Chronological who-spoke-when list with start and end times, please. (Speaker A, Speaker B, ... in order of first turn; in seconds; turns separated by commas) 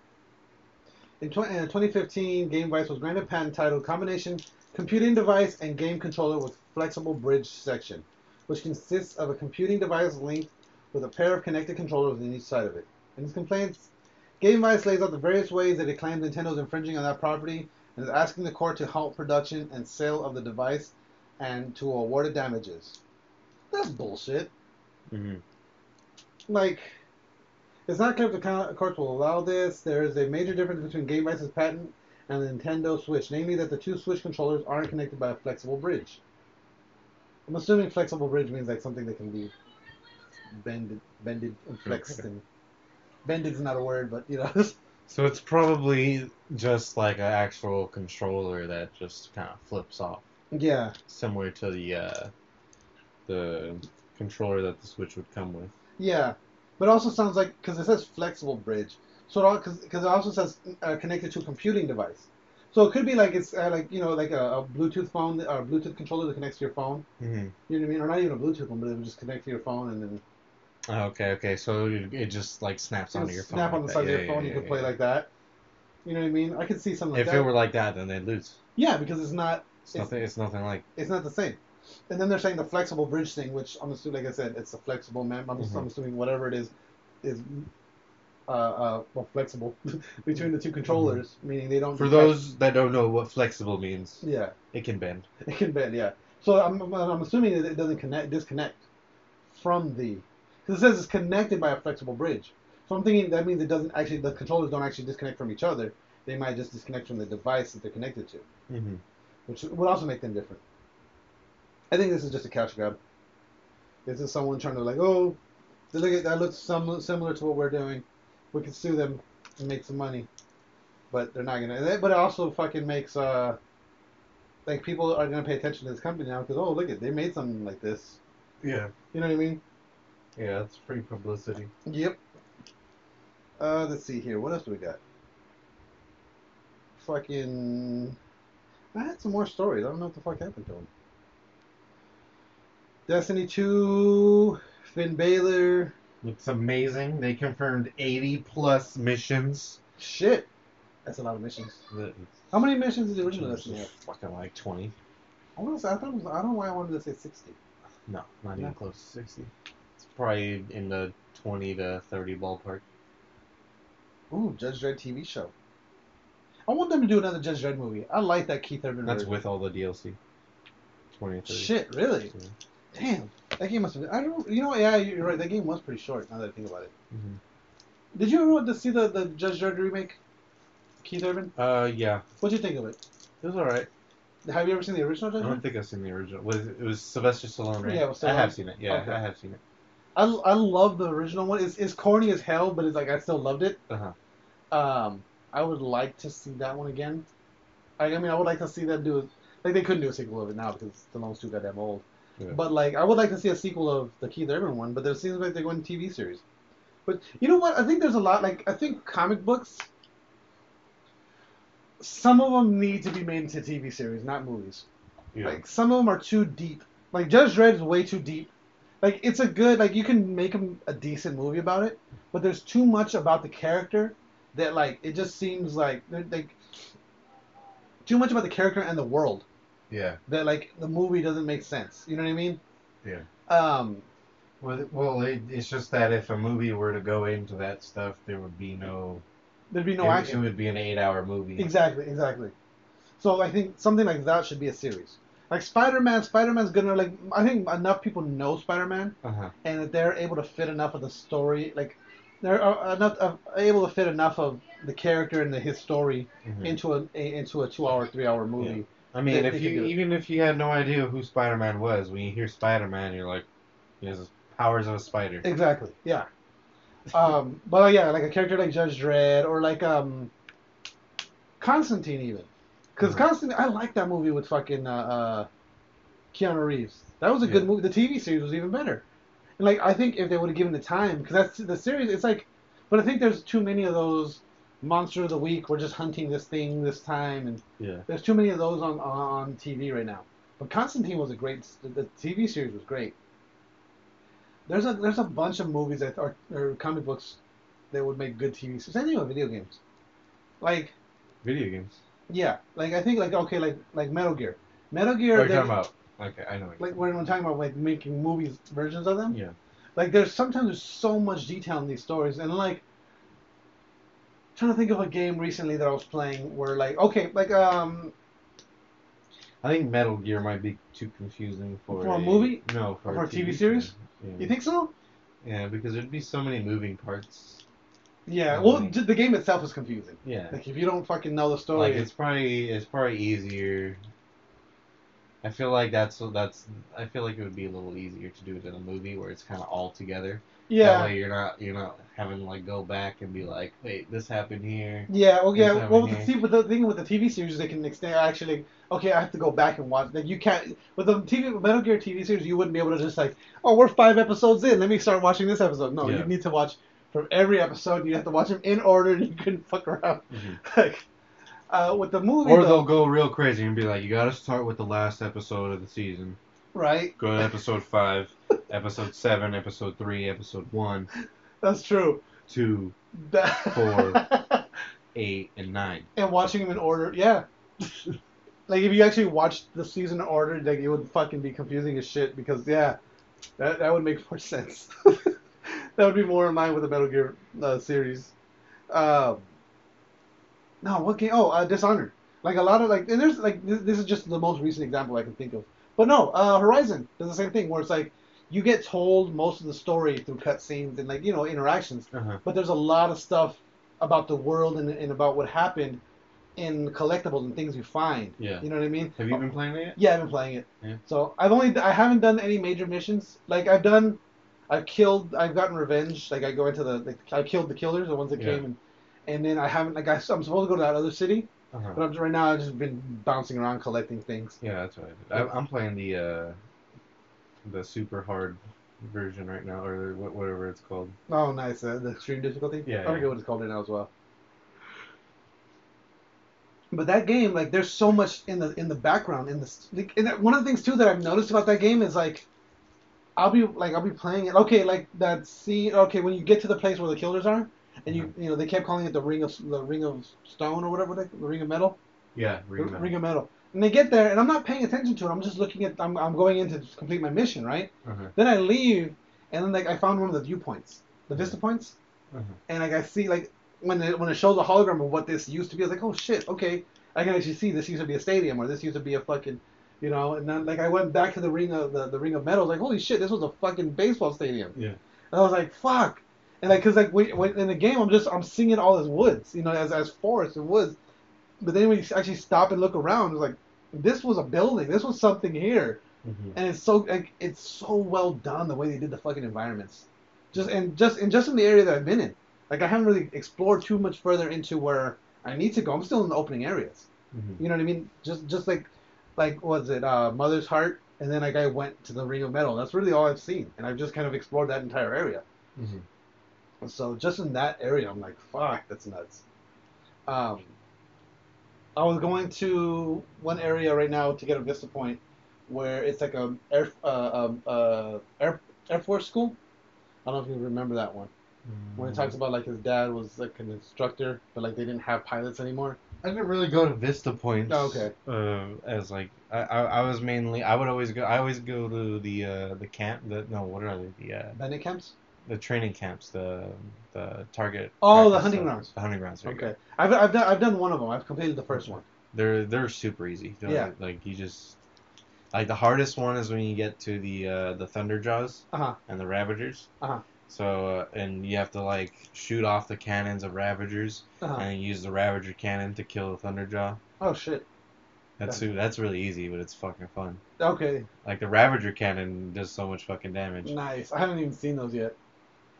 Speaker A: 1.2-13.9, Speaker A: 14.4-23.0, Speaker A: 23.7-24.5, Speaker B: 25.1-25.4, Speaker A: 26.5-27.0, Speaker A: 27.9-36.2, Speaker A: 37.5-39.5, Speaker A: 40.5-42.4, Speaker B: 41.9-42.2, Speaker A: 43.2-44.8, Speaker B: 45.1-50.2, Speaker A: 50.5-50.9, Speaker B: 51.1-52.3, Speaker B: 53.3-55.7, Speaker A: 56.0-67.0, Speaker B: 67.2-67.5, Speaker A: 67.7-70.2, Speaker B: 70.9-74.9, Speaker A: 73.1-75.3, Speaker A: 76.0-77.5, Speaker B: 77.1-78.6, Speaker A: 78.8-80.1, Speaker B: 79.9-80.8, Speaker A: 81.0-81.6, Speaker A: 82.1-86.7, Speaker B: 85.6-85.8, Speaker A: 87.2-87.7, Speaker A: 88.5-92.4, Speaker B: 90.9-91.2, Speaker B: 91.9-95.2, Speaker A: 94.2-94.5, Speaker A: 95.4-98.8, Speaker A: 99.5-108.4, Speaker B: 108.7-109.0, Speaker A: 109.5-110.6, Speaker A: 111.9-113.0, Speaker A: 114.0-115.4, Speaker A: 115.9-120.3, Speaker A: 121.1-123.6, Speaker A: 124.7-128.2, Speaker B: 128.6-128.9, Speaker A: 129.1-129.6, Speaker B: 130.3-131.7, Speaker A: 131.8-132.2, Speaker A: 133.6-135.0, Speaker A: 137.0-138.2, Speaker A: 138.9-140.9, Speaker A: 143.1-145.9, Speaker B: 146.2-149.8, Speaker A: 150.0-150.5, Speaker A: 151.0-151.8, Speaker B: 151.9-152.3, Speaker A: 152.5-153.9, Speaker B: 153.2-154.9, Speaker A: 155.6-157.6, Speaker B: 158.1-162.8, Speaker A: 164.3-165.5, Speaker A: 166.7-169.4, Speaker B: 169.0-170.2, Speaker B: 171.2-172.5, Speaker A: 171.5-172.3, Speaker A: 172.9-176.9, Speaker B: 177.1-177.4, Speaker A: 178.1-180.2, Speaker A: 181.0-181.5, Speaker B: 181.6-182.2, Speaker A: 182.4-183.0, Speaker B: 183.4-183.9, Speaker A: 184.4-185.6, Speaker B: 185.4-189.6, Speaker A: 187.8-189.2, Speaker A: 190.2-193.8, Speaker B: 193.9-194.1, Speaker A: 194.7-197.2, Speaker A: 198.0-206.4, Speaker A: 207.1-209.9, Speaker A: 212.0-214.8, Speaker B: 215.3-215.6, Speaker A: 215.4-218.5, Speaker A: 219.0-226.6, Speaker A: 228.0-229.4, Speaker B: 229.9-230.2, Speaker A: 230.3-232.6, Speaker A: 233.5-234.0, Speaker B: 234.6-239.2, Speaker A: 239.7-240.5, Speaker B: 240.0-241.7, Speaker A: 241.6-242.5, Speaker A: 243.2-259.9, Speaker B: 249.2-249.5, Speaker B: 256.4-256.8, Speaker B: 258.6-263.4, Speaker B: 264.0-265.4, Speaker A: 265.4-266.3, Speaker A: 267.1-270.3, Speaker A: 271.6-275.5, Speaker A: 276.3-279.0, Speaker B: 277.4-277.7, Speaker A: 279.6-293.1, Speaker B: 287.8-288.1, Speaker A: 294.7-297.4, Speaker A: 297.9-299.8, Speaker A: 300.6-300.9, Speaker B: 301.4-302.0, Speaker A: 302.3-305.8, Speaker B: 305.3-306.9, Speaker A: 306.8-309.4, Speaker B: 309.3-309.5, Speaker A: 309.9-312.8, Speaker A: 314.6-318.1, Speaker B: 319.6-324.5, Speaker A: 321.9-324.9, Speaker B: 325.4-327.6, Speaker A: 328.3-332.1, Speaker B: 328.5-329.0, Speaker B: 330.2-330.6, Speaker B: 331.7-334.0, Speaker B: 335.4-346.3, Speaker A: 340.7-341.1, Speaker A: 345.1-361.0, Speaker B: 356.0-356.3, Speaker B: 360.3-360.6, Speaker A: 361.7-362.9, Speaker B: 362.4-366.4, Speaker A: 366.7-367.2, Speaker B: 367.2-371.1, Speaker A: 371.6-372.2, Speaker B: 372.5-372.9, Speaker A: 373.2-374.6, Speaker B: 373.5-374.3, Speaker B: 375.1-376.1, Speaker A: 376.1-377.4, Speaker A: 378.7-383.0, Speaker A: 383.6-388.3, Speaker A: 388.9-389.4, Speaker A: 390.8-406.0, Speaker B: 402.1-402.4, Speaker A: 406.6-424.6, Speaker B: 408.4-410.0, Speaker B: 418.4-418.6, Speaker B: 421.7-422.0, Speaker B: 424.6-426.6, Speaker B: 427.6-431.1, Speaker A: 431.3-434.1, Speaker B: 432.9-433.3, Speaker A: 436.9-442.4, Speaker A: 443.4-452.0, Speaker B: 452.3-453.1, Speaker A: 452.8-461.9, Speaker B: 458.0-458.3, Speaker B: 462.3-462.6, Speaker A: 462.7-474.8, Speaker A: 475.3-480.9, Speaker A: 481.6-486.0, Speaker B: 486.2-486.6, Speaker A: 486.5-497.1, Speaker B: 497.3-497.6, Speaker A: 497.6-505.4, Speaker B: 505.8-506.0, Speaker A: 506.8-509.4, Speaker A: 510.3-510.7, Speaker A: 511.9-519.5, Speaker A: 520.2-521.3, Speaker B: 521.6-522.4, Speaker A: 522.0-526.0, Speaker B: 526.2-534.5, Speaker A: 527.7-528.1, Speaker A: 534.5-535.1, Speaker B: 535.5-539.7, Speaker A: 538.0-538.9, Speaker A: 539.5-542.0, Speaker B: 542.3-544.8, Speaker A: 543.6-543.9, Speaker B: 545.5-549.9, Speaker A: 548.7-549.0, Speaker B: 550.5-557.0, Speaker A: 557.2-557.6, Speaker B: 558.4-560.4, Speaker A: 560.6-561.1, Speaker B: 561.2-563.7, Speaker A: 563.6-565.1